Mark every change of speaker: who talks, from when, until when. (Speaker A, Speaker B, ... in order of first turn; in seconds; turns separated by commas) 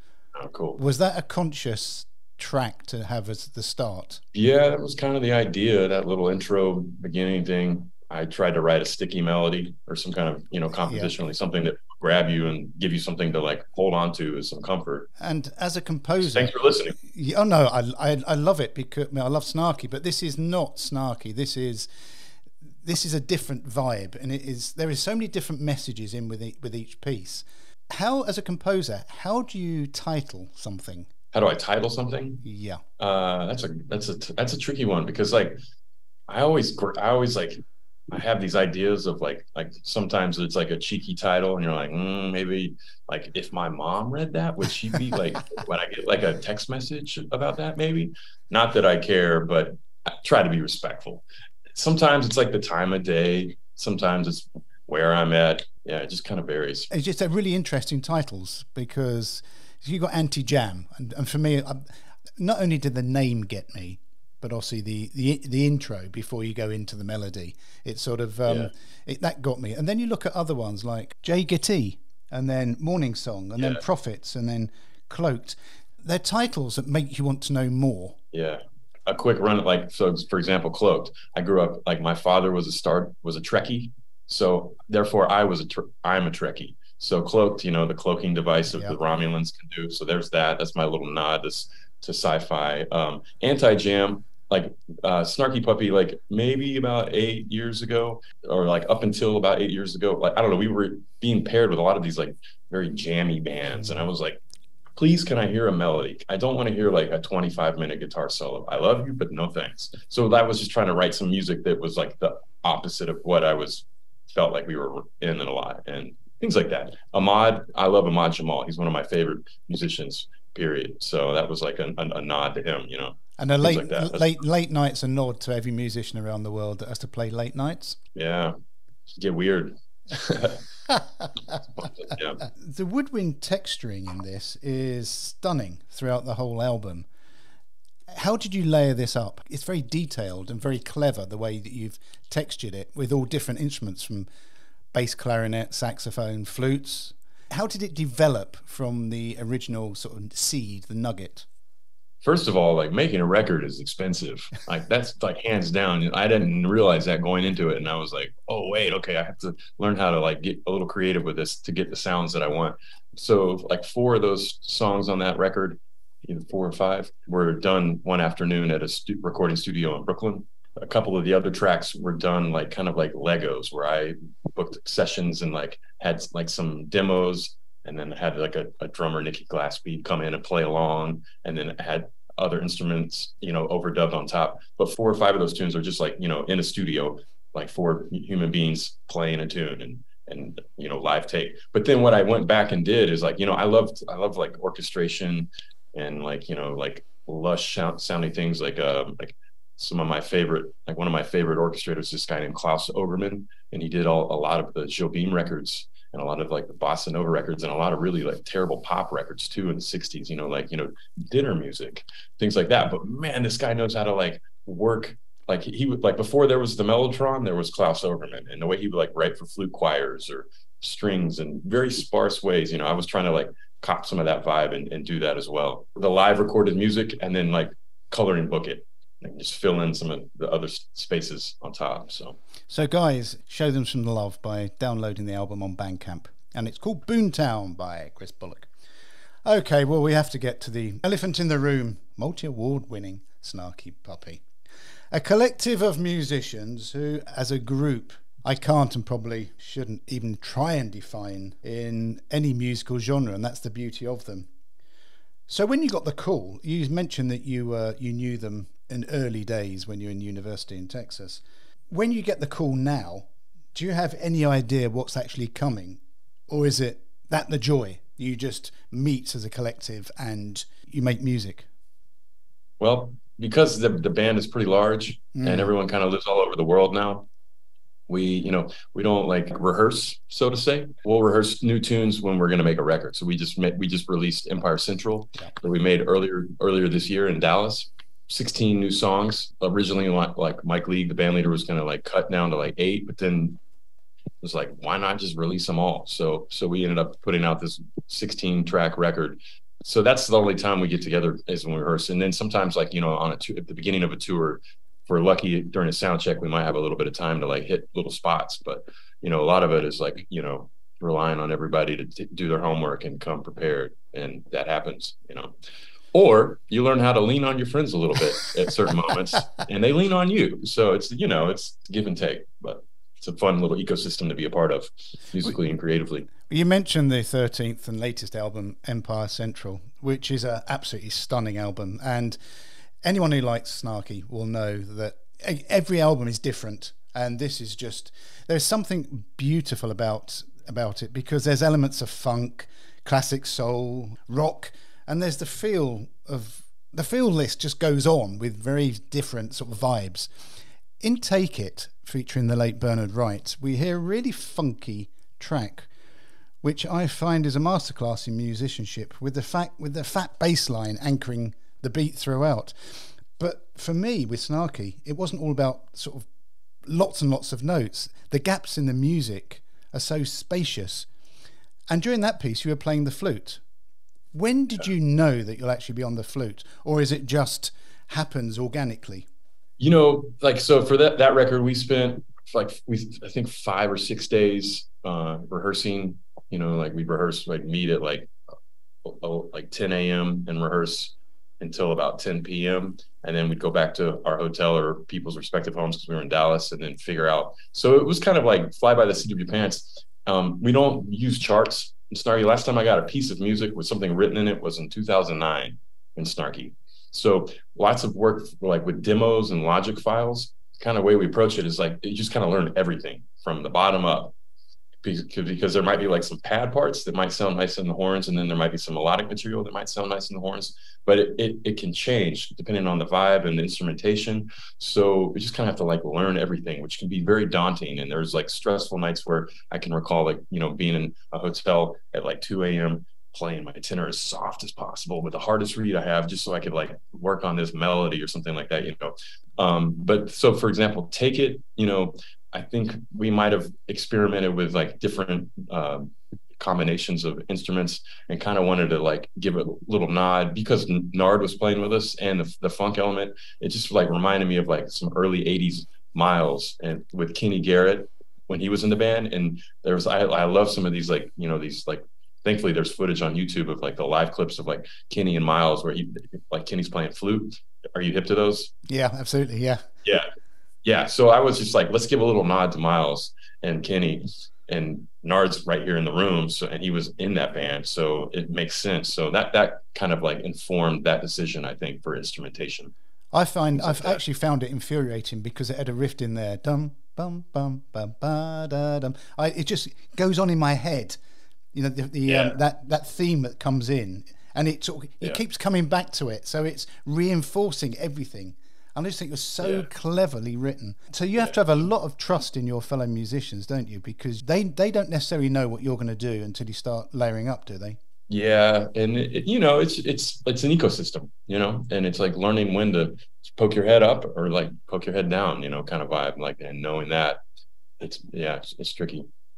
Speaker A: 0.3-0.8, Speaker B: 0.8-4.2, Speaker A: 4.3-15.1, Speaker B: 10.8-11.1, Speaker B: 15.2-21.9, Speaker A: 16.2-17.0, Speaker B: 22.8-31.1, Speaker A: 31.3-32.4, Speaker B: 32.4-32.8, Speaker A: 33.0-35.6, Speaker A: 36.3-51.2, Speaker A: 51.7-56.9, Speaker B: 56.9-61.9, Speaker B: 62.4-78.2, Speaker A: 68.5-68.7, Speaker A: 78.3-104.4, Speaker A: 105.0-124.3, Speaker B: 123.4-128.0, Speaker A: 128.1-128.5, Speaker A: 129.2-130.6, Speaker A: 131.7-132.4, Speaker B: 132.4-137.1, Speaker B: 138.1-144.3, Speaker B: 144.9-151.5, Speaker A: 152.2-232.4, Speaker B: 232.7-238.7, Speaker B: 239.4-244.4, Speaker B: 245.1-254.5, Speaker B: 255.5-271.7, Speaker A: 272.8-277.3, Speaker B: 275.3-275.7, Speaker A: 278.1-293.6, Speaker A: 294.4-315.5, Speaker A: 316.1-326.3, Speaker B: 326.4-332.4, Speaker B: 333.0-350.3, Speaker B: 351.0-355.9, Speaker B: 356.6-366.3, Speaker B: 366.8-371.1, Speaker B: 371.9-373.6, Speaker B: 374.3-379.3, Speaker A: 379.8-388.3, Speaker A: 389.0-414.3, Speaker A: 415.0-468.7, Speaker B: 468.9-469.8, Speaker A: 470.8-482.9, Speaker B: 483.3-491.2, Speaker A: 483.8-484.2, Speaker B: 491.7-508.0, Speaker A: 492.3-492.6, Speaker A: 499.6-499.9, Speaker A: 508.3-517.4, Speaker A: 518.0-519.3